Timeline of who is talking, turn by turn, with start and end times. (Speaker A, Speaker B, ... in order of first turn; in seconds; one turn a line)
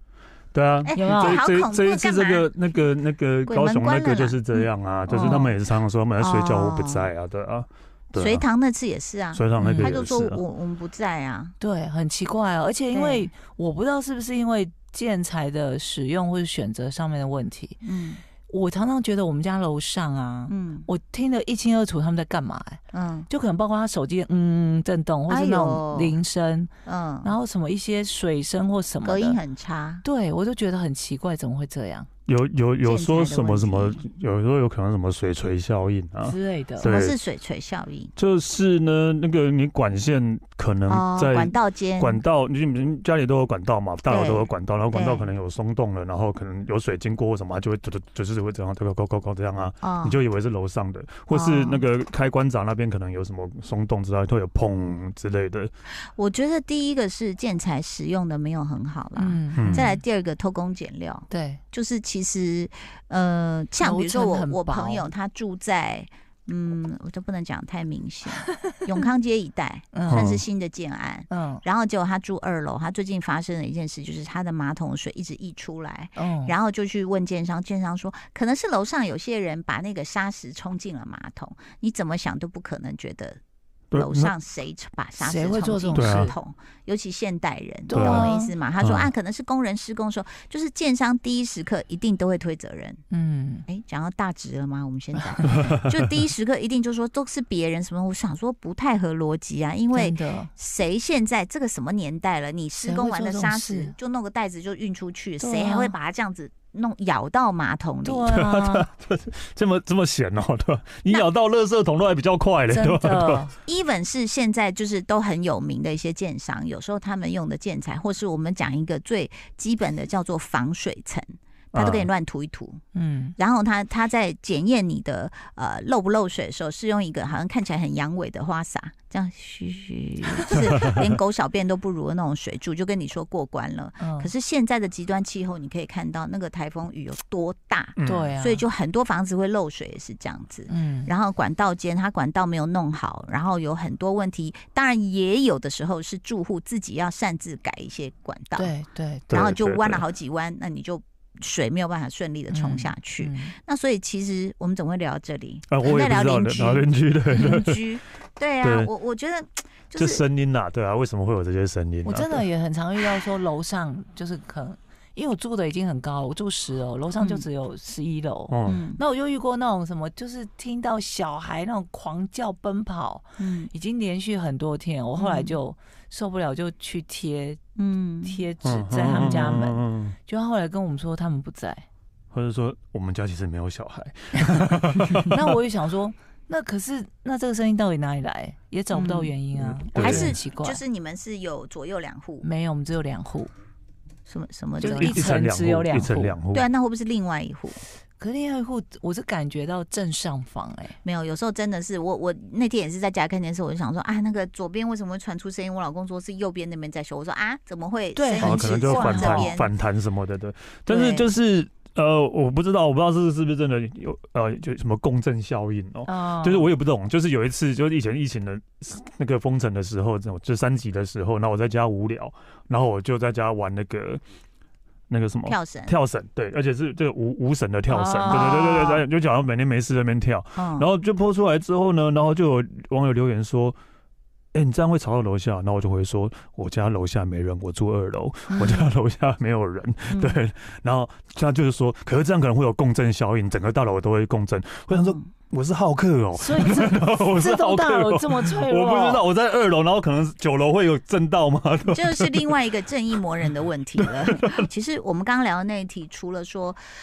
Speaker A: 0.5-8.4
Speaker B: 0.8-2.5
Speaker C: 0.9-1.4
Speaker B: 3.5-4.6
Speaker C: 5.1-5.5
Speaker B: 6.2-7.1
Speaker B: 8.2-11.6
Speaker A: 9.3-10.4
Speaker C: 9.6-10.0
Speaker C: 11.6-17.8
Speaker B: 12.9-13.3
Speaker B: 17.8-18.2
Speaker C: 18.4-26.7
Speaker B: 20.5-20.9
Speaker B: 22.9-23.3
Speaker B: 25.3-26.2
Speaker B: 26.9-27.4
Speaker C: 27.2-29.4
Speaker B: 29.0-30.0
Speaker C: 30.0-32.1
Speaker A: 32.3-37.2
Speaker B: 32.8-34.0
Speaker C: 36.2-36.9
Speaker B: 36.8-38.1
Speaker A: 38.2-55.7
Speaker B: 40.9-42.2
Speaker B: 44.1-45.3
Speaker B: 49.8-50.2
Speaker B: 51.3-51.8
Speaker B: 56.1-83.4
Speaker C: 59.2-60.0
Speaker A: 59.5-59.8
Speaker C: 61.3-61.6
Speaker C: 63.8-65.1
Speaker C: 69.9-70.3
Speaker A: 70.1-70.4
Speaker C: 71.3-71.6
Speaker C: 76.2-76.5
Speaker A: 83.9-84.3
Speaker B: 83.9-93.0
Speaker C: 85.2-86.3
Speaker A: 85.9-86.3
Speaker C: 87.9-88.5
Speaker A: 87.9-88.3
Speaker A: 88.8-89.1
Speaker C: 93.1-93.6
Speaker B: 93.7-108.3
Speaker A: 95.7-96.0
Speaker C: 99.9-100.5
Speaker C: 102.8-104.0
Speaker C: 105.4-105.9
Speaker C: 108.0-108.9
Speaker A: 108.3-113.4
Speaker C: 112.7-113.5
Speaker B: 113.7-122.8
Speaker A: 121.7-122.1
Speaker C: 122.9-123.3
Speaker B: 123.3-148.7
Speaker C: 134.0-134.3
Speaker A: 138.0-138.3
Speaker C: 138.1-138.6
Speaker C: 140.7-141.1
Speaker C: 148.6-149.3
Speaker A: 149.3-150.0
Speaker B: 149.3-160.2
Speaker C: 152.5-153.5
Speaker A: 155.7-157.8
Speaker A: 158.6-158.9
Speaker A: 159.9-162.4
Speaker C: 162.0-177.6
Speaker B: 167.2-167.4
Speaker A: 168.5-168.8
Speaker B: 168.7-169.0
Speaker B: 173.4-173.7
Speaker B: 175.2-175.6
Speaker B: 177.8-178.4
Speaker C: 178.2-181.8
Speaker A: 178.6-180.2
Speaker A: 182.3-185.3
Speaker C: 185.2-190.8
Speaker B: 188.9-189.3
Speaker A: 189.5-190.4
Speaker B: 189.9-192.4
Speaker C: 192.4-193.5
Speaker B: 194.3-195.3
Speaker C: 194.8-196.4
Speaker A: 195.0-196.7
Speaker B: 196.5-197.8
Speaker C: 198.2-201.0
Speaker B: 201.0-209.7
Speaker C: 208.1-209.5
Speaker A: 208.4-224.2
Speaker B: 210.9-211.2
Speaker C: 216.1-216.7
Speaker A: 225.1-233.8
Speaker B: 225.4-225.9
Speaker C: 227.9-228.9
Speaker B: 228.3-229.0
Speaker B: 230.6-230.9
Speaker A: 234.5-252.5
Speaker B: 238.5-238.9
Speaker B: 240.1-240.4
Speaker B: 244.9-245.2
Speaker C: 246.3-249.2
Speaker B: 251.9-256.8
Speaker A: 254.0-254.7